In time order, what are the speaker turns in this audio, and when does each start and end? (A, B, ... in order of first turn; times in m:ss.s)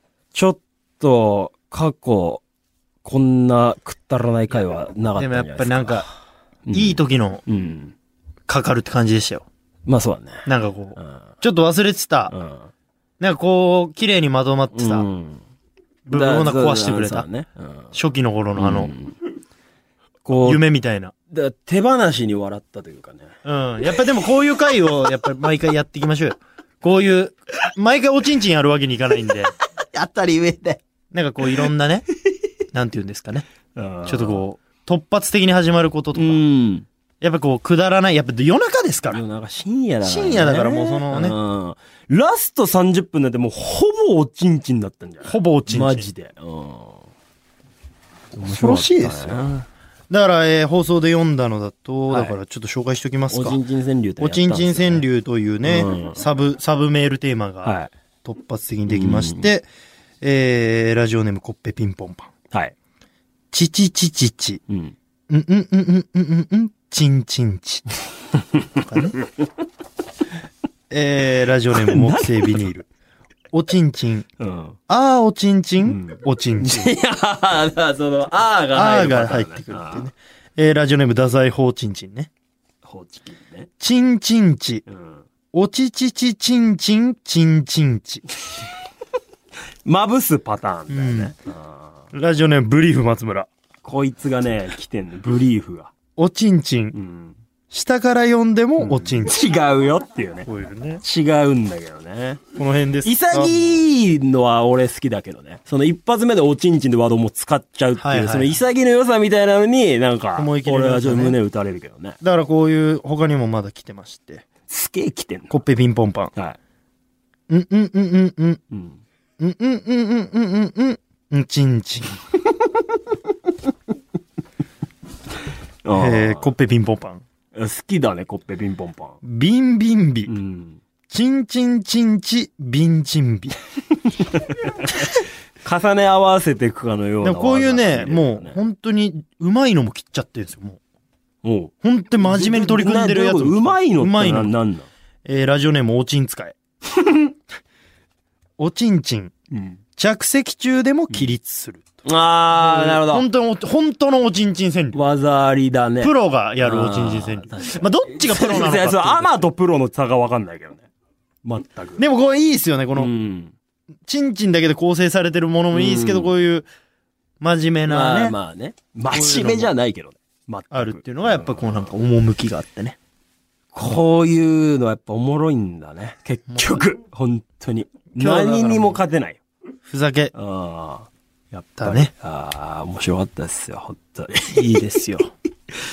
0:00.3-0:02.4 A
0:03.0-0:06.0 A
0:05.2-0:06.1 B
0:06.6-0:07.9 A
0:06.7-0:07.4 B
0:08.5-0:09.4 B
0:09.9-0:10.4 A
0:10.4-0:12.3 B
0:12.3-0:12.7 A
0:13.2-0:15.0 B
0:14.7-0:15.4 A
0:16.0-0:17.3 B
0:16.1-0:17.9 A
0:17.9-0:18.9 B
0:18.6-0:19.2 A
0:20.2-0:20.6 A
0:20.4-0:21.1 B
0:21.3-0:23.3 A
0:23.4-0:29.5 B
0:29.6-0:30.8 A
0:31.1-0:32.0 B
0:32.7-0:33.4 B
0:33.7-0:34.4 A
0:34.0-0:36.4 B
0:36.1-0:36.8 A
0:37.2-0:39.2 B
0:39.1-0:47.0 A
0:40.0-0:41.4 B
0:45.2-0:46.1 B
0:48.3-0:49.6 A
0:48.4-0:49.4 B
0:50.1-0:53.6 B
0:52.1-0:52.3 A
0:53.3-0:55.0 A
0:54.2-0:59.7 B
0:55.6-0:56.2 A
0:57.6-0:57.9 A
0:58.9-0:59.5 A
1:00.2-1:02.3 B
1:03.5-1:04.6 B
1:04.7-1:04.9 A
1:05.3-1:07.8 B
1:08.8-1:09.2 B
1:10.9-1:12.9 B
1:11.7-1:12.6 A
1:13.5-1:14.2 B
1:14.4-1:14.8 A
1:14.9-1:16.9 B
1:15.8-1:20.1 A
1:18.7-1:22.3 B
1:22.8-1:23.7 A
1:23.8-1:24.8 B
1:24.9-1:25.2 A
1:25.5-1:28.2 B
1:29.8-1:31.9 A
1:30.9-1:31.3 B
1:32.1-1:33.5 B
1:33.8-1:35.9 A
1:36.2-1:37.0 B
1:36.9-1:37.3 A
1:37.7-1:39.4 B
1:38.8-1:40.5 A
1:40.4-1:41.0 B
1:41.0-1:42.4 A
1:42.6-1:43.6 B
1:43.0-1:52.2 A
1:48.0-1:48.6 B
1:50.3-1:51.4 B
1:52.2-1:54.4 B
1:54.7-1:55.5 A
1:55.5-1:56.3 B
1:57.5-1:58.6 B
1:58.7-1:59.0 A
1:59.4-2:02.1 B
2:05.8-2:06.5 A
2:05.9-2:07.2 B
2:07.5-2:09.2 A
2:09.2-2:10.3 B
2:10.3-2:10.8 A
2:11.1-2:13.5 B
2:14.6-2:14.9 A
2:15.6-2:18.6 A
2:17.2-2:20.8 B
2:21.4-2:24.9 A
2:21.8-2:24.5 B
2:25.2-2:26.6 B
2:28.6-2:29.3 B
2:29.5-2:29.8 A
2:30.0-2:31.9 B
2:32.0-2:33.2 A
2:32.5-2:35.0 B
2:34.9-2:40.9 A
2:36.0-2:39.5 B
2:41.4-2:42.0 A
2:42.0-2:43.1 B
2:42.9-2:43.5 A
2:44.1-2:46.7 B
2:45.7-2:46.3 A
2:47.4-2:48.4 B
2:47.9-2:51.9 A
2:49.1-2:49.7 B
2:50.7-2:53.0 B
2:53.7-2:59.4 A
2:56.5-2:56.8 B
2:58.1-2:59.0 B
2:59.9-3:00.3 B
3:00.3-3:01.1 A
3:01.5-3:02.1 B
3:01.8-3:05.2 A
3:04.5-3:05.3 B